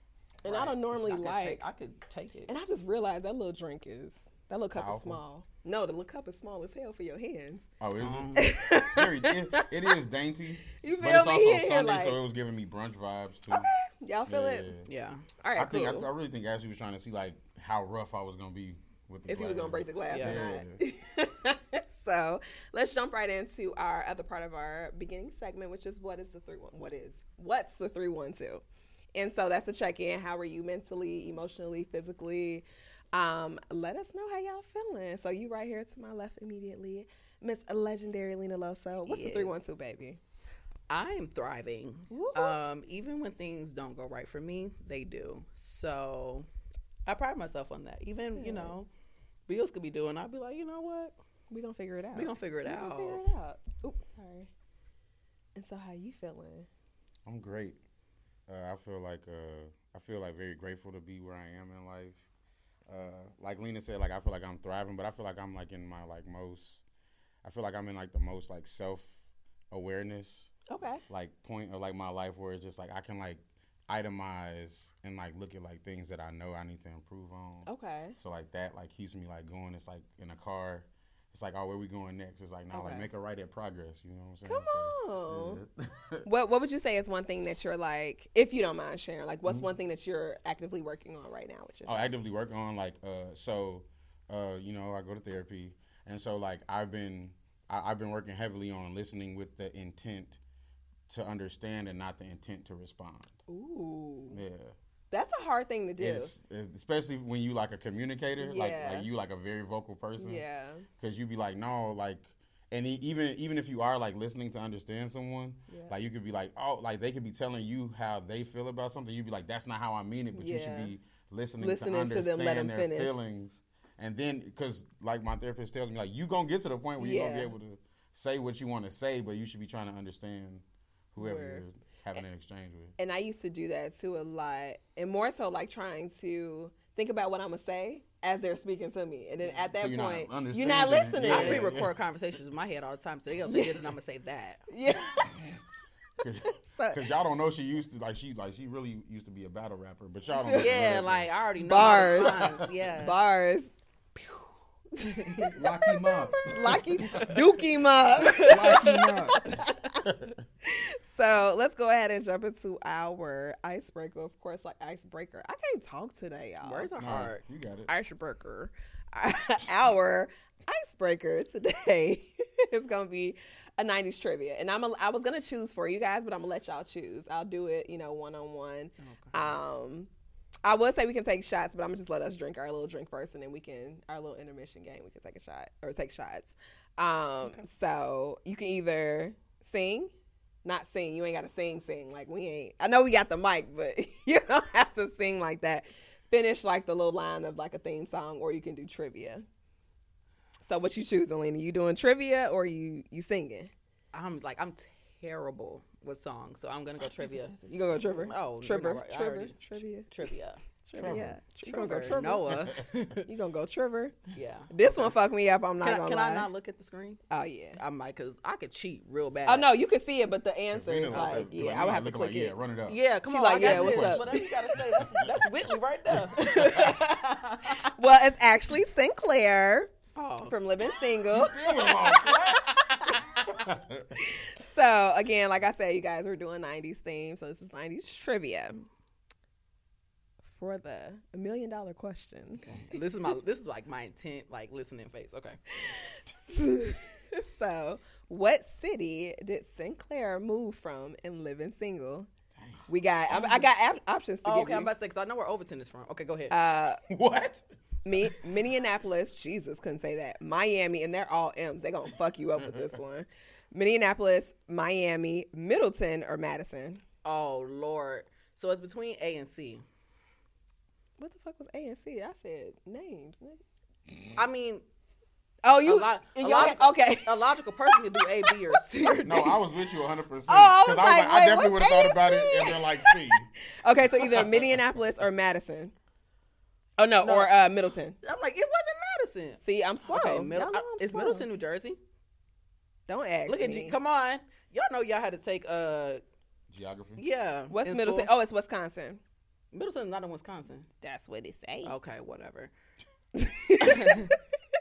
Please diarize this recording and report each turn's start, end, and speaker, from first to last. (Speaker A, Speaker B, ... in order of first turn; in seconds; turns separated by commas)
Speaker A: 0.4-1.6, Speaker B: 0.4-2.5, Speaker A: 2.5-7.7, Speaker C: 4.7-5.2, Speaker C: 7.8-13.7, Speaker B: 8.0-8.5, Speaker A: 8.3-9.9, Speaker A: 10.7-12.2, Speaker A: 13.5-14.7, Speaker C: 14.3-14.9, Speaker B: 14.8-16.1, Speaker C: 15.6-20.8, Speaker A: 19.3-28.6, Speaker B: 20.1-20.4, Speaker A: 29.1-40.2, Speaker B: 39.1-39.5, Speaker B: 40.9-46.5, Speaker A: 42.1-42.6, Speaker B: 47.0-48.9, Speaker A: 48.4-48.7, Speaker B: 49.5-51.1, Speaker A: 51.5-54.5, Speaker B: 52.1-53.2, Speaker A: 55.5-56.7, Speaker C: 57.2-57.8, Speaker C: 58.5-62.2, Speaker C: 62.9-66.8, Speaker C: 67.4-69.2, Speaker C: 69.7-70.5, Speaker A: 70.7-71.0, Speaker C: 71.1-86.2, Speaker A: 77.7-78.2, Speaker B: 82.7-83.1, Speaker A: 84.4-85.6, Speaker A: 86.2-92.1, Speaker C: 91.8-100.4, Speaker C: 101.1-103.3, Speaker A: 103.5-104.4, Speaker C: 104.3-104.7, Speaker A: 105.1-106.3, Speaker C: 106.0-110.4, Speaker A: 108.4-109.1, Speaker A: 110.2-110.9, Speaker C: 111.0-132.9, Speaker A: 120.3-120.9, Speaker A: 121.6-123.1, Speaker A: 127.0-127.5, Speaker A: 131.2-131.6, Speaker A: 133.0-141.7, Speaker C: 139.7-141.9, Speaker B: 141.2-144.6, Speaker A: 143.5-143.8, Speaker A: 144.7-145.4, Speaker C: 145.3-145.6, Speaker C: 146.2-151.3, Speaker A: 146.4-147.0, Speaker A: 150.3-150.7, Speaker B: 150.5-153.1, Speaker A: 151.6-160.0, Speaker C: 152.1-152.7, Speaker C: 155.6-157.4, Speaker B: 158.2-159.2, Speaker C: 158.4-160.4, Speaker A: 160.6-166.9, Speaker B: 166.6-167.4, Speaker C: 167.0-167.9, Speaker A: 167.9-180.1, Speaker B: 179.0-179.5, Speaker A: 180.6-190.1, Speaker A: 190.6-199.4, Speaker A: 200.7-203.7, Speaker B: 204.1-210.6, Speaker A: 207.1-210.1, Speaker A: 210.8-212.7, Speaker C: 210.9-211.4, Speaker B: 211.6-213.3, Speaker C: 212.5-213.2, Speaker A: 213.2-214.2, Speaker B: 214.3-215.2, Speaker A: 214.7-216.5, Speaker B: 215.8-217.2, Speaker A: 217.3-217.8, Speaker B: 217.8-219.7, Speaker A: 219.4-222.5, Speaker C: 220.7-223.0, Speaker B: 222.9-227.9, Speaker A: 223.3-224.8, Speaker C: 223.6-225.5, Speaker C: 226.2-227.0, Speaker A: 226.4-226.9, Speaker A: 227.7-229.9, Speaker B: 230.1-230.5, Speaker A: 230.4-233.2, Speaker C: 231.3-232.7, Speaker B: 231.8-233.5, Speaker C: 233.5-234.1, Speaker A: 234.2-238.9, Speaker A: 240.5-243.3, Speaker B: 242.6-245.6, Speaker A: 245.8-252.3, Speaker C: 252.5-253.6, Speaker A: 252.9-254.9, Speaker B: 254.4-256.6, Speaker A: 256.5-257.0, Speaker C: 257.1-257.6, Speaker A: 258.0-267.0, Speaker C: 262.6-262.9, Speaker B: 267.2-269.8, Speaker A: 271.2-273.6, Speaker B: 274.4-274.8, Speaker A: 275.6-278.8, Speaker B: 275.8-279.6, Speaker C: 279.2-283.5, Speaker A: 280.5-285.9, Speaker C: 284.1-284.7, Speaker A: 287.0-288.2, Speaker B: 287.2-287.7, Speaker B: 288.2-292.0, Speaker A: 289.6-291.4, Speaker A: 293.1-293.9, Speaker B: 293.5-296.2, Speaker C: 296.7-297.2, Speaker B: 297.2-298.3, Speaker A: 297.7-299.2, Speaker B: 299.7-300.9, Speaker A: 301.0-301.9, Speaker B: 301.8-302.7, Speaker A: 303.3-304.3, Speaker B: 303.8-304.3